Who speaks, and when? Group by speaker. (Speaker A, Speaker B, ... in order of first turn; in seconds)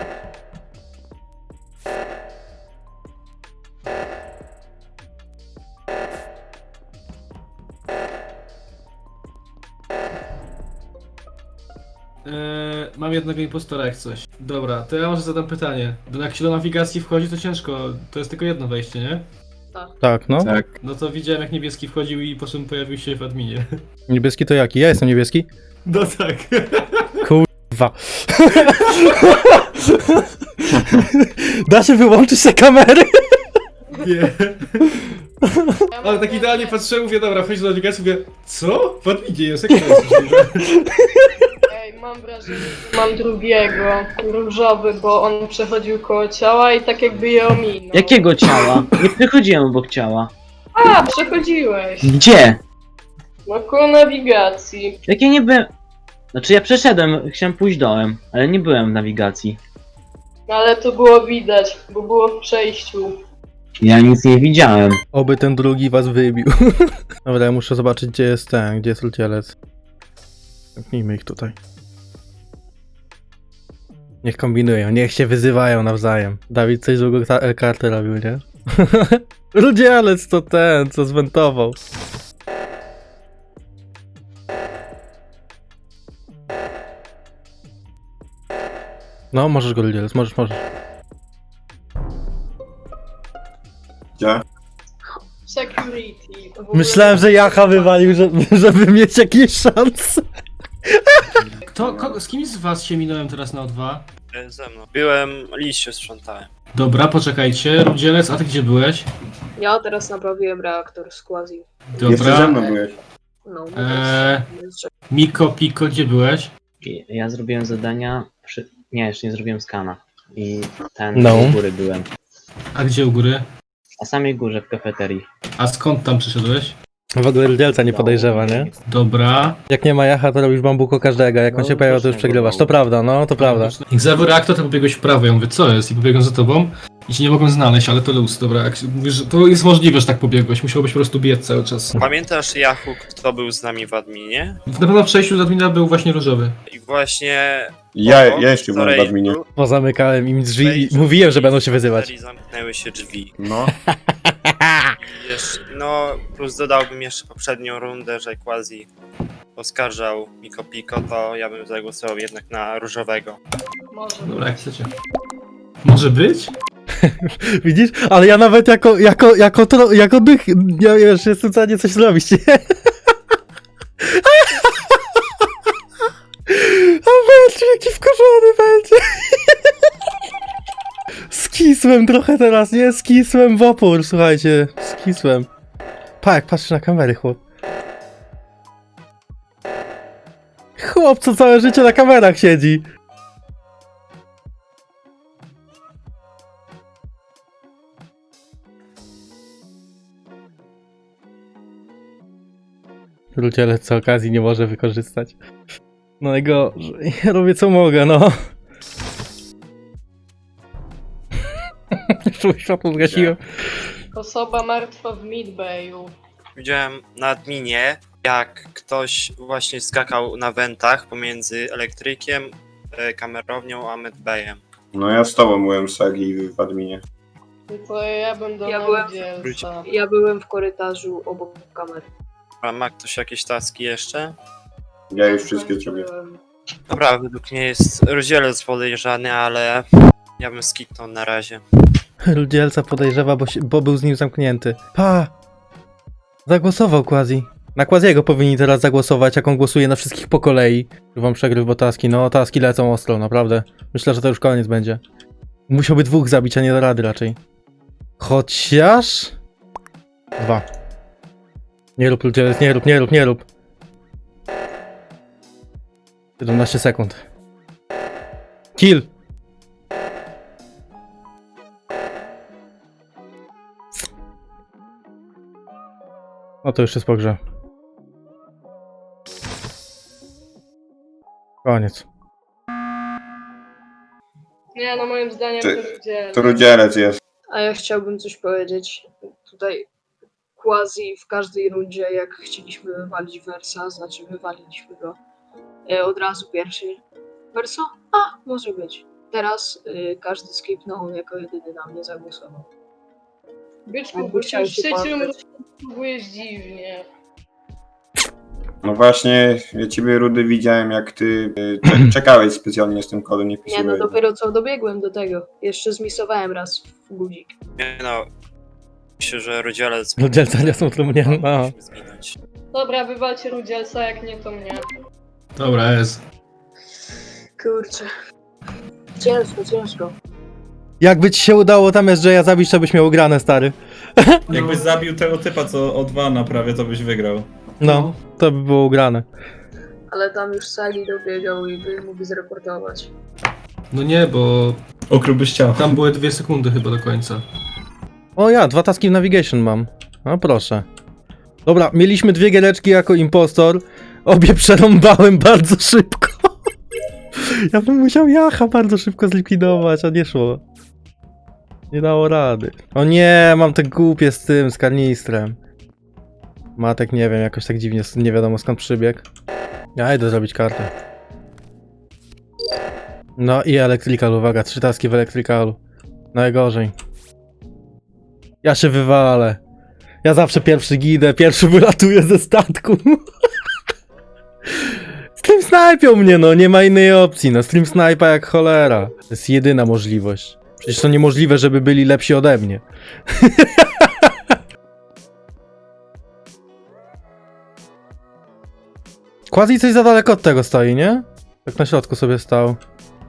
Speaker A: 12.2-19.3, 20.8-23.7, 25.9-27.2, 33.9-35.1, 36.0-40.6, 101.7-104.1, 106.7-109.1, 111.9-112.6, 113.8-114.5, 115.1-116.5, 122.7-123.5, 125.6-126.8, 128.8-129.6, 133.4-142.1, 144.7-146.6, 164.2-164.9, 165.8-166.5, 325.6-326.2, 337.8-338.2, 343.9-344.8, 345.8-347.4
Speaker B: 20.0-20.5, 24.1-25.5, 27.2-33.5, 35.4-35.8, 39.8-41.5, 65.1-69.5, 70.8-71.6, 74.2-81.8, 89.3-90.6, 96.7-100.2, 100.9-101.3, 121.2-121.6, 127.2-128.7, 129.7-133.7, 149.6-152.1, 153.9-154.9, 167.0-172.7, 174.0-175.0, 176.5-179.6, 181.3-185.5, 186.2-187.4, 190.8-192.8, 203.4-205.4, 206.2-208.3, 212.1-213.8, 242.3-245.3, 246.5-255.0, 255.7-257.4, 258.2-259.3, 260.4-260.6, 262.0-263.4, 266.4-267.2, 268.8-269.1, 276.6-277.4, 281.6-282.1, 320.2-321.7, 331.0-334.6, 337.8-339.3, 348.4-350.9, 351.6-356.5, 357.4-360.6, 361.9-365.6, 366.8-369.2, 370.0-370.9, 373.4-375.8, 376.3-376.9, 378.6-379.6, 380.2-383.2, 384.8-394.3, 399.5-402.8
Speaker C: 41.7-48.1, 50.8-52.0, 53.5-54.9, 60.5-63.1, 95.5-96.4, 214.2-216.1, 227.7-229.6, 235.4-236.1, 284.8-286.6, 303.9-305.0, 305.8-307.0, 322.7-324.8
Speaker D: 47.9-50.3, 52.0-52.6, 55.1-55.7, 56.3-59.6, 63.8-65.0, 116.8-122.1, 124.0-125.2, 127.8-128.8, 131.5-132.8
Speaker E: 96.6-98.0, 109.6-111.7, 112.3-112.9, 113.5-114.9, 228.6-232.1, 287.5-289.9, 290.6-295.2, 295.9-297.0, 297.5-302.6, 304.1-305.4, 313.7-317.6, 327.6-328.1, 329.2-330.1, 340.1-343.1
Speaker F: 101.8-102.2, 112.0-112.9, 147.9-149.4, 153.4-153.7, 213.0-213.3, 224.9-227.0, 235.1-236.1, 286.3-287.2, 308.8-314.1
Speaker G: 104.3-106.5, 141.9-144.6, 146.7-149.5, 150.6-153.3, 155.0-158.9, 159.6-163.4, 216.6-224.6, 229.3-229.8, 232.6-234.3, 236.9-239.9, 240.4-241.6, 317.8-318.3, 319.2-322.4
Speaker H: 334.5-337.5, 345.1-346.0